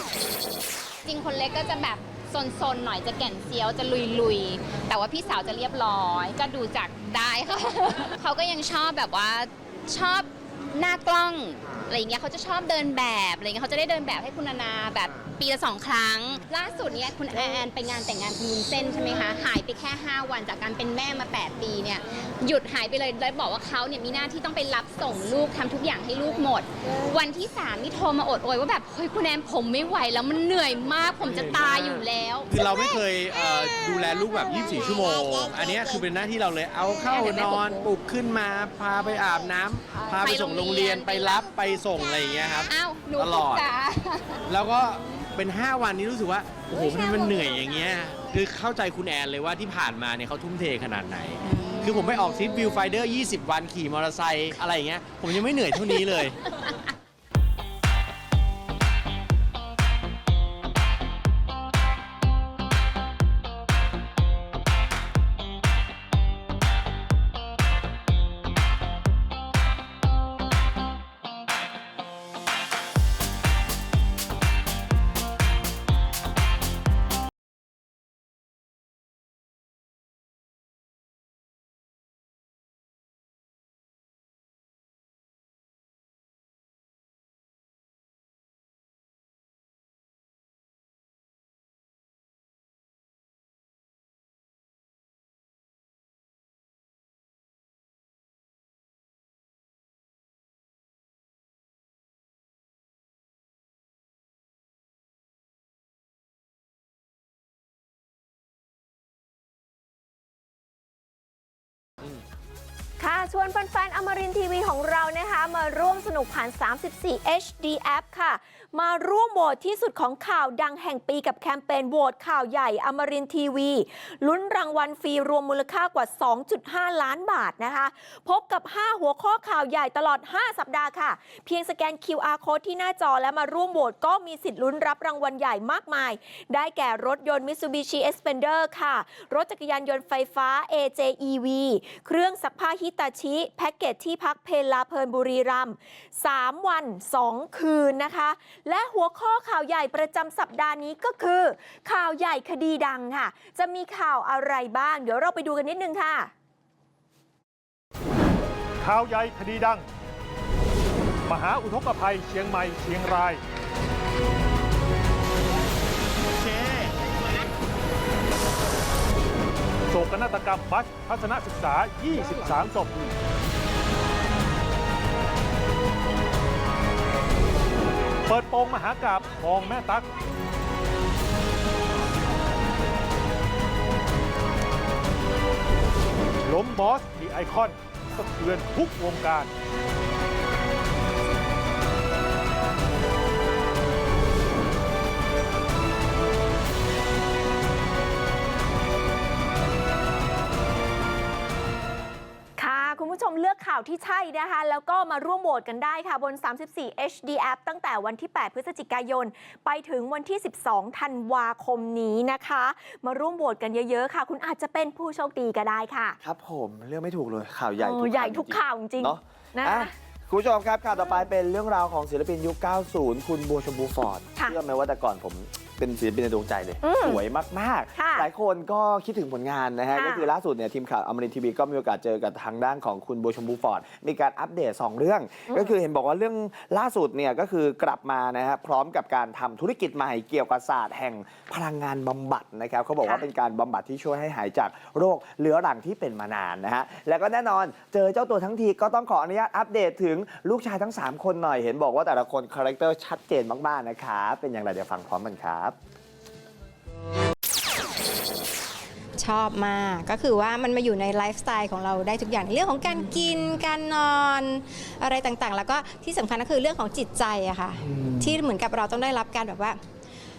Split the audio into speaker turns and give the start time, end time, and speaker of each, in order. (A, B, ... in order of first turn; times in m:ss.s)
0:01.0-0:36.0 A
0:31.2-0:43.7 B
0:36.8-0:37.9 A
0:39.9-0:44.4 A
0:44.5-0:56.4 B
0:46.7-0:47.9 A
0:51.4-0:52.6 A
1:53.0-2:36.3 C
2:38.8-2:39.8 D
2:41.2-2:43.4 D
2:46.4-2:46.9 B
2:49.9-2:53.1 D
2:58.3-3:00.1 D
3:06.4-3:09.5 D
3:22.6-3:36.2 C
3:36.2-4:15.8 E
3:37.8-3:39.9 C
3:46.8-3:47.2 C
3:48.0-3:48.3 C
3:49.9-3:50.3 C
4:19.2-4:29.8 F